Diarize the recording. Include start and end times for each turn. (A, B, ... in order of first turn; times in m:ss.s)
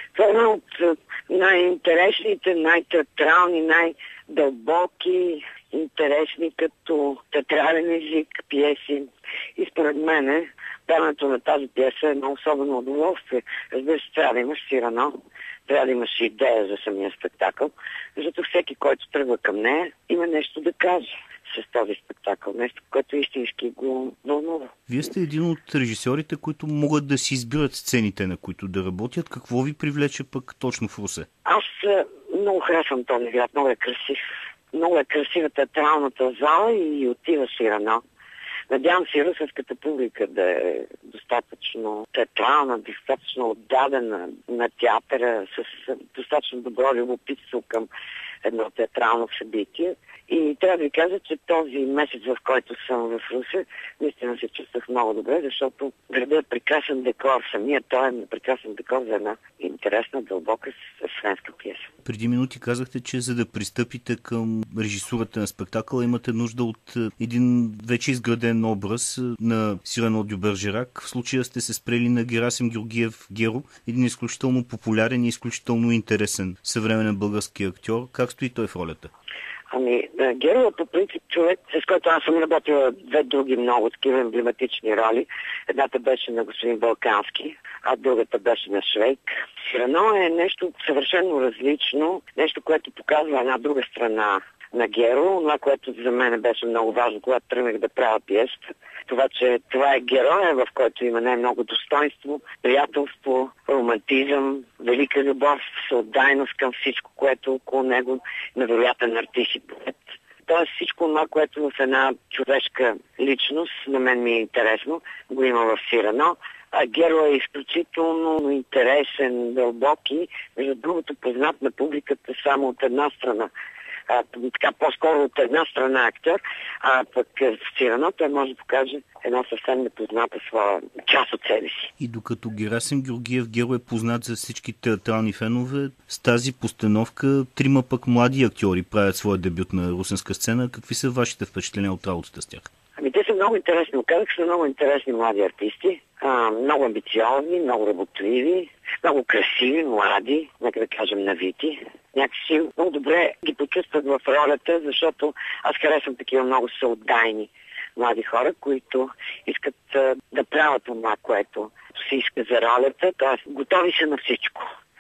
0:00.2-0:15.2 A
0:15.7-0:24.7 A
0:24.9-0:31.3 B
0:31.4-0:38.0 A
0:38.7-0:47.9 A
0:48.4-1:01.9 A
1:02.0-1:19.1 B
1:19.7-2:03.5 A
2:04.1-2:11.9 A
2:12.0-2:22.7 B
2:23.0-2:44.7 A